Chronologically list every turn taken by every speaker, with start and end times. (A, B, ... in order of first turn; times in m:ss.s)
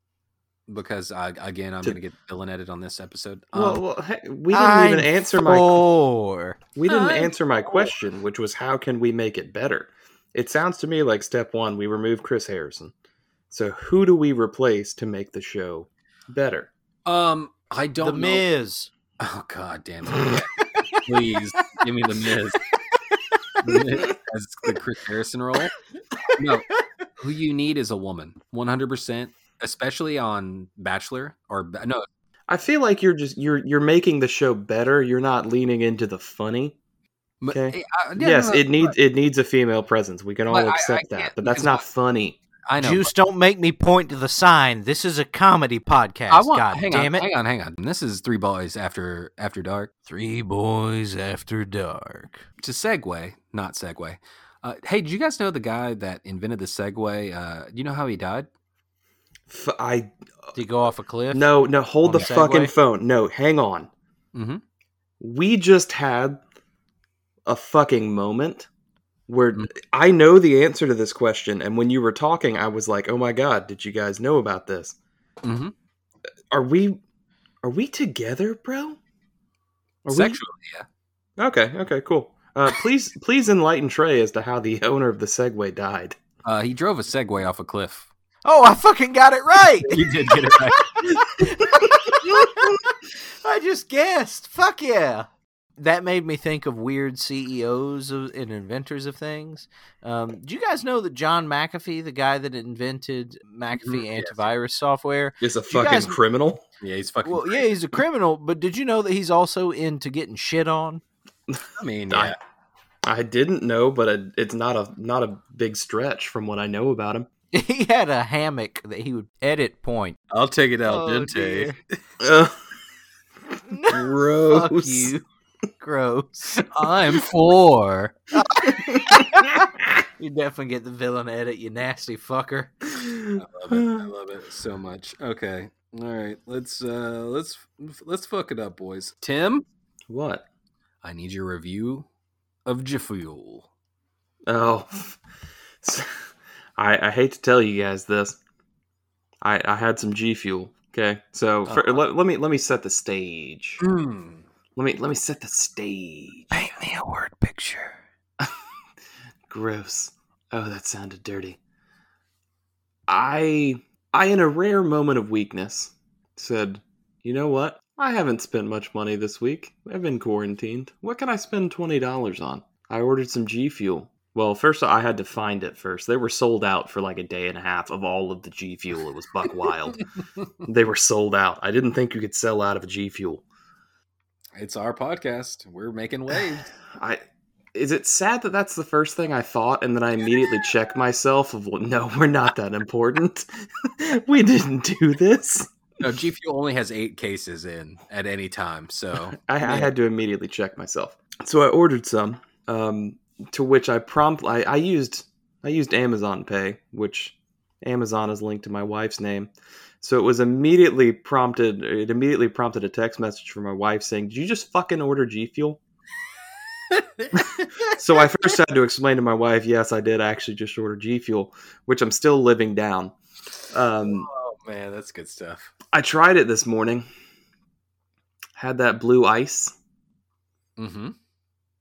0:00.7-0:03.8 A
0:03.5-0:05.8 B
0:04.5-0:06.6 C
0:06.8-0:12.9 B
0:06.8-0:07.9 A
0:13.5-0:16.7 B
0:17.0-0:18.4 A
0:18.0-0:18.9 C
0:19.2-0:22.6 A
0:23.6-0:25.7 A
0:26.3-0:26.7 A
0:27.2-0:32.0 A
0:32.5-0:36.8 B
0:37.4-0:38.9 A
0:37.5-0:42.4 B
0:40.5-0:41.8 A
0:42.6-0:43.1 A
0:42.8-0:47.2 C
0:46.3-0:49.9 A
0:50.1-0:52.4 C
0:52.6-0:58.5 A
0:59.5-1:00.1 B
1:00.5-1:02.7 C
1:01.3-1:03.9 B
1:02.1-1:02.5 A
1:04.3-1:04.6 A
1:05.2-1:06.4 B
1:07.4-1:08.7 B
1:09.3-1:15.0 B
1:15.4-1:15.7 A
1:16.5-1:17.0 B
1:17.6-1:19.0 B
1:20.0-1:20.4 B
1:20.1-1:20.9 A
1:21.4-1:26.2 B
1:26.4-1:28.1 A
1:28.4-1:32.8 C
1:29.8-1:31.2 A
1:33.4-1:46.2 C
1:43.8-1:44.4 A
1:45.4-1:46.6 B
1:46.8-1:47.7 A
1:47.2-1:51.0 C
1:51.8-1:52.4 A
1:52.1-1:52.4 B
1:53.0-1:57.3 B
1:57.5-2:00.2 C
2:00.3-2:01.8 A
2:00.8-2:01.8 C
2:02.2-2:02.6 B
2:03.7-2:05.2 C
2:03.9-2:05.0 B
2:04.2-2:04.8 A
2:05.8-2:06.6 C
2:06.6-2:08.1 A
2:08.4-2:12.8 C
2:08.7-2:09.2 B
2:13.0-2:14.0 B
2:13.3-2:19.6 A
2:20.1-2:20.4 B
2:21.0-2:22.0 A
2:22.6-2:23.7 A
2:24.4-2:25.2 B
2:25.8-2:26.1 B
2:26.8-2:28.4 B
2:29.4-2:33.8 B
2:31.7-2:32.0 A
2:33.8-2:34.4 A
2:34.8-2:36.5 B
2:36.5-2:38.0 A
2:39.5-2:41.6 B
2:43.1-3:00.0 B
3:00.6-3:03.4 B
3:04.5-3:06.7 A
3:06.9-3:07.2 B
3:07.7-3:15.7 B
3:16.0-3:19.9 A
3:19.4-3:29.5 B
3:30.0-3:35.8 B
3:36.9-3:37.9 A
3:37.3-3:43.1 B
3:43.7-3:44.3 B
3:44.0-3:45.7 A
3:45.9-3:47.0 B
3:48.6-3:49.8 B
3:50.8-3:51.1 A